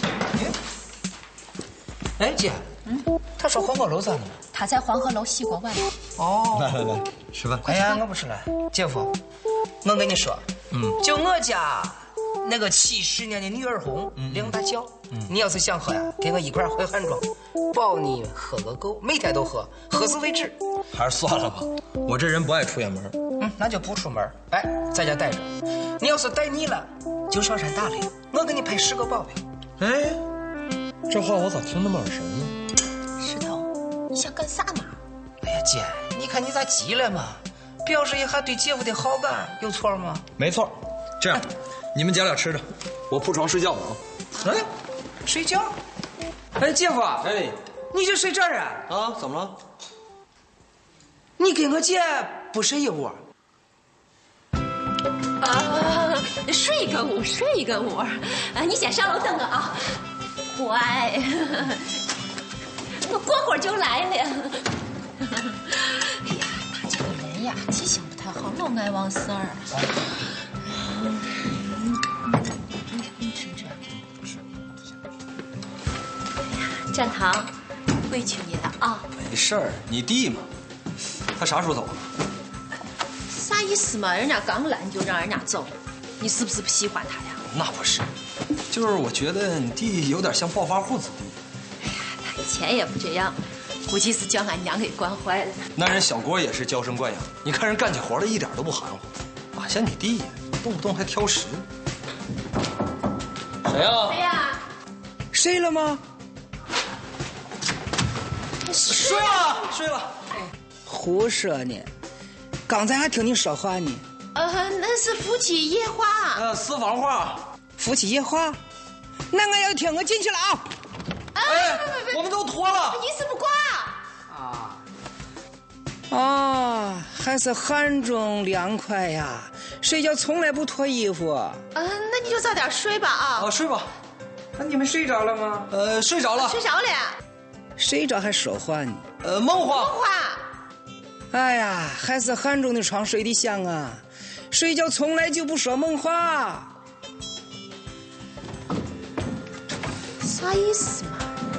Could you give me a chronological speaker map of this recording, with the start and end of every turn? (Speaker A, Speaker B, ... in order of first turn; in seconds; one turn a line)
Speaker A: 2.2-2.7
Speaker A: 3.4-4.4
Speaker B: 4.5-5.9
Speaker A: 6.2-6.9
Speaker C: 6.5-7.6
Speaker A: 7.6-9.2
Speaker A: 9.8-20.6
Speaker C: 14.2-14.5
Speaker C: 20.9-23.1
Speaker A: 23.4-29.4
Speaker C: 29.8-30.2
Speaker C: 31.1-32.6
Speaker B: 33.2-35.0
Speaker A: 35.4-40.3
Speaker C: 40.4-44.6
Speaker A: 45.2-45.8
Speaker A: 46.6-47.3
Speaker C: 47.2-47.6
Speaker A: 47.9-48.9
Speaker C: 48.9-49.6
Speaker A: 51.4-53.2
Speaker B: 55.4-60.0
Speaker B: 60.5-61.9
Speaker B: 63.0-64.7
Speaker B: 65.2-69.7
Speaker B: 70.8-72.0
Speaker B: 72.9-73.8
Speaker B: 76.4-77.5
Speaker B: 78.0-79.1
Speaker C: 79.1-80.5
Speaker C: 81.4-82.0
Speaker B: 83.3-87.4
Speaker C: 87.5-88.0
Speaker C: 88.7-91.3
Speaker B: 91.8-95.6
Speaker C: 95.8-101.7
Speaker C: 103.6-104.2
Speaker B: 104.0-104.6
Speaker A: 105.3-106.0
Speaker B: 108.7-109.6
Speaker C: 108.8-110.2
Speaker A: 110.8-111.9
Speaker A: 112.7-114.0
Speaker B: 114.3-116.4
Speaker C: 116.3-117.4
Speaker A: 117.8-118.6
Speaker A: 119.3-120.7
Speaker B: 121.3-122.2
Speaker C: 121.4-123.0
Speaker B: 122.9-124.0
Speaker A: 124.3-124.8
Speaker A: 126.1-131.6
Speaker B: 131.7-133.5
Speaker C: 133.3-133.9
Speaker A: 134.6-135.7
Speaker C: 135.7-136.6
Speaker B: 136.3-137.2
Speaker A: 137.8-139.1
Speaker C: 139.2-139.9
Speaker B: 139.7-140.4
Speaker A: 141.3-146.7
Speaker B: 150.2-151.3